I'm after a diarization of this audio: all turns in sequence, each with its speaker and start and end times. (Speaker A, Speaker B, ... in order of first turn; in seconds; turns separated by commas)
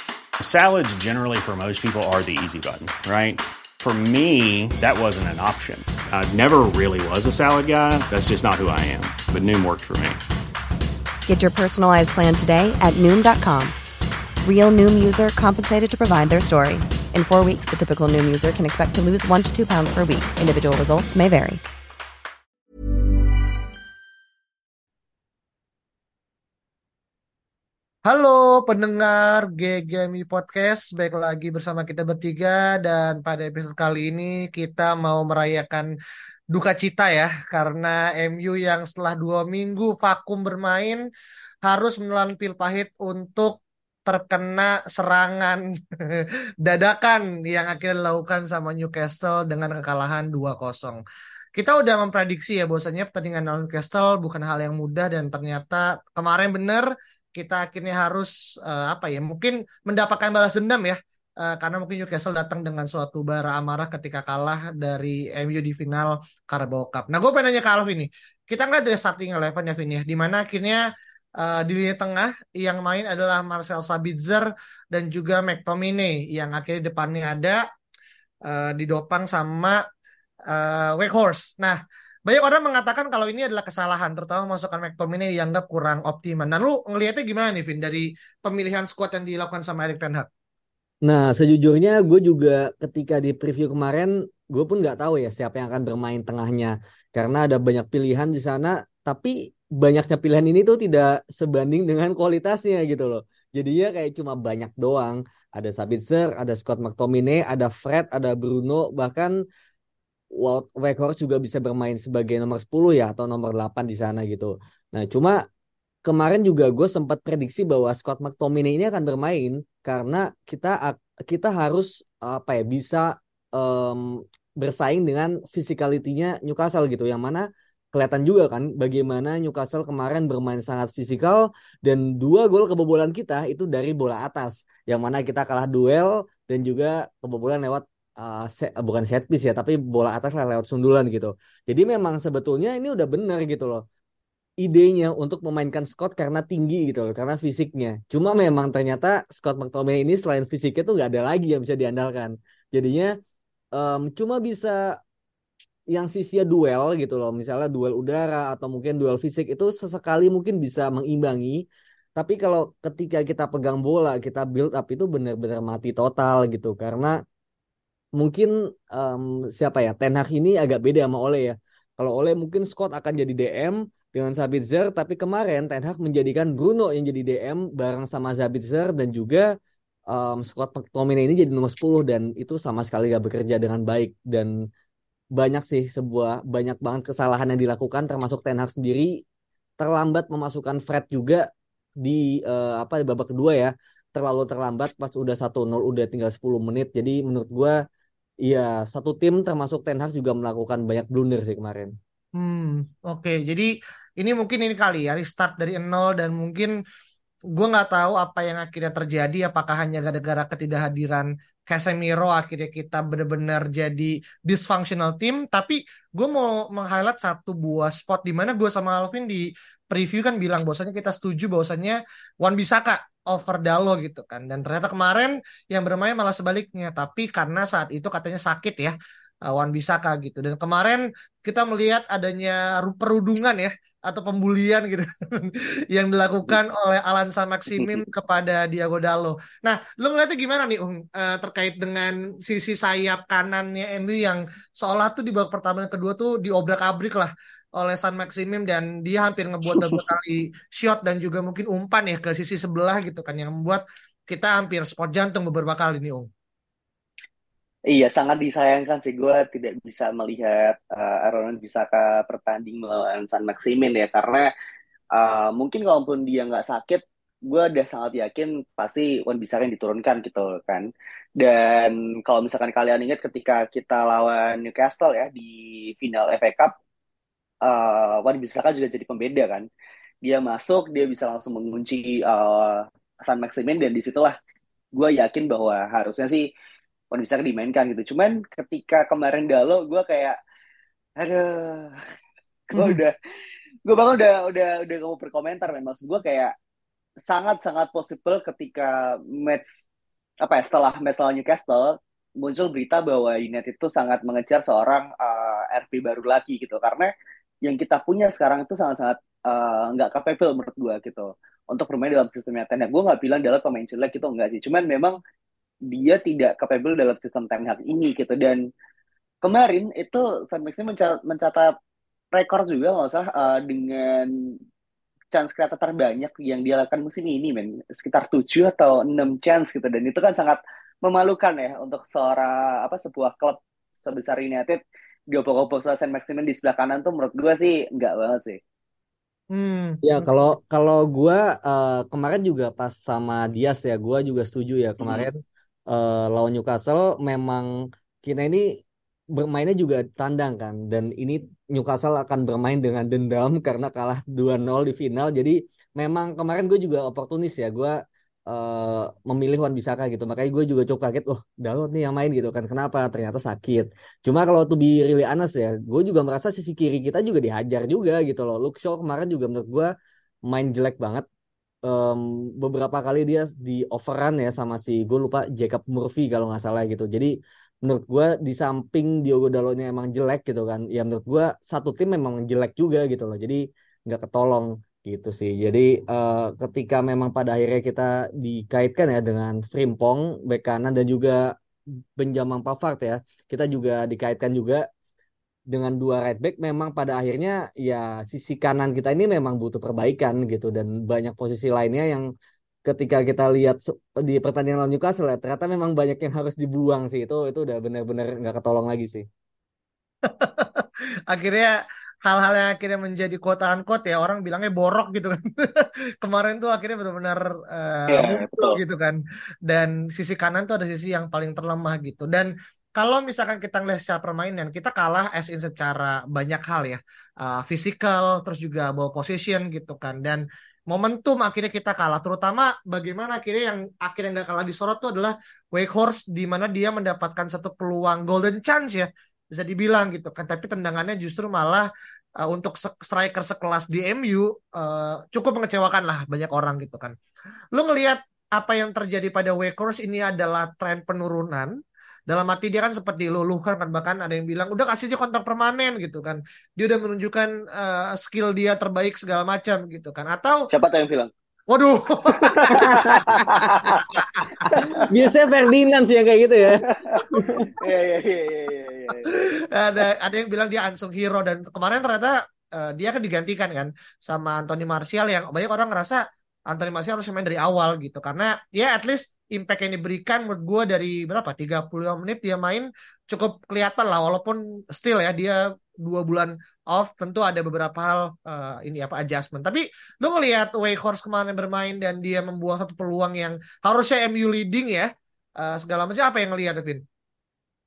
Speaker A: 0.4-10.2, Speaker B: 11.3-13.7, Speaker B: 14.4-21.6, Speaker C: 28.1-35.9, Speaker C: 36.5-41.0, Speaker C: 41.6-51.0, Speaker C: 51.6-77.6, Speaker C: 78.5-79.8, Speaker C: 80.5-90.3, Speaker D: 91.0-109.3, Speaker D: 110.3-115.4, Speaker D: 116.0-143.8, Speaker D: 144.6-153.1, Speaker D: 153.8-154.8, Speaker D: 155.9-161.6, Speaker D: 162.2-167.2, Speaker D: 168.2-179.5, Speaker D: 180.1-184.5, Speaker D: 185.4-189.2, Speaker D: 189.8-191.4, Speaker D: 192.0-197.8, Speaker D: 198.4-201.9, Speaker C: 202.4-206.8, Speaker C: 207.5-228.9, Speaker C: 229.5-256.3, Speaker E: 237.7-238.0, Speaker E: 249.7-250.0, Speaker E: 257.9-264.5, Speaker E: 265.1-270.9, Speaker E: 271.4-276.7, Speaker E: 277.6-279.7, Speaker E: 280.2-284.4, Speaker E: 284.9-286.5, Speaker E: 287.1-290.4, Speaker E: 291.2-292.0, Speaker E: 292.7-293.2, Speaker E: 293.9-296.5, Speaker E: 297.3-299.8, Speaker E: 300.4-307.1, Speaker E: 307.6-315.2, Speaker E: 315.9-318.6, Speaker E: 319.4-321.7, Speaker E: 322.3-324.6, Speaker E: 325.3-334.8, Speaker E: 335.3-338.6, Speaker C: 339.5-340.4, Speaker D: 340.0-345.4, Speaker D: 345.9-347.7, Speaker D: 348.2-348.8, Speaker D: 349.4-358.0, Speaker D: 358.5-369.9, Speaker D: 370.5-371.2, Speaker D: 371.9-377.3, Speaker D: 377.9-391.5, Speaker D: 392.2-394.9, Speaker D: 395.7-402.3, Speaker D: 402.9-409.3, Speaker C: 410.2-441.9, Speaker E: 418.1-418.8, Speaker C: 442.4-447.2, Speaker C: 447.7-451.8, Speaker C: 452.3-460.7, Speaker E: 460.7-461.3, Speaker C: 461.7-463.2, Speaker E: 462.4-465.1, Speaker D: 462.7-463.6, Speaker C: 464.2-464.7, Speaker D: 465.0-467.7, Speaker E: 466.9-467.2, Speaker E: 467.8-469.4, Speaker C: 469.3-497.0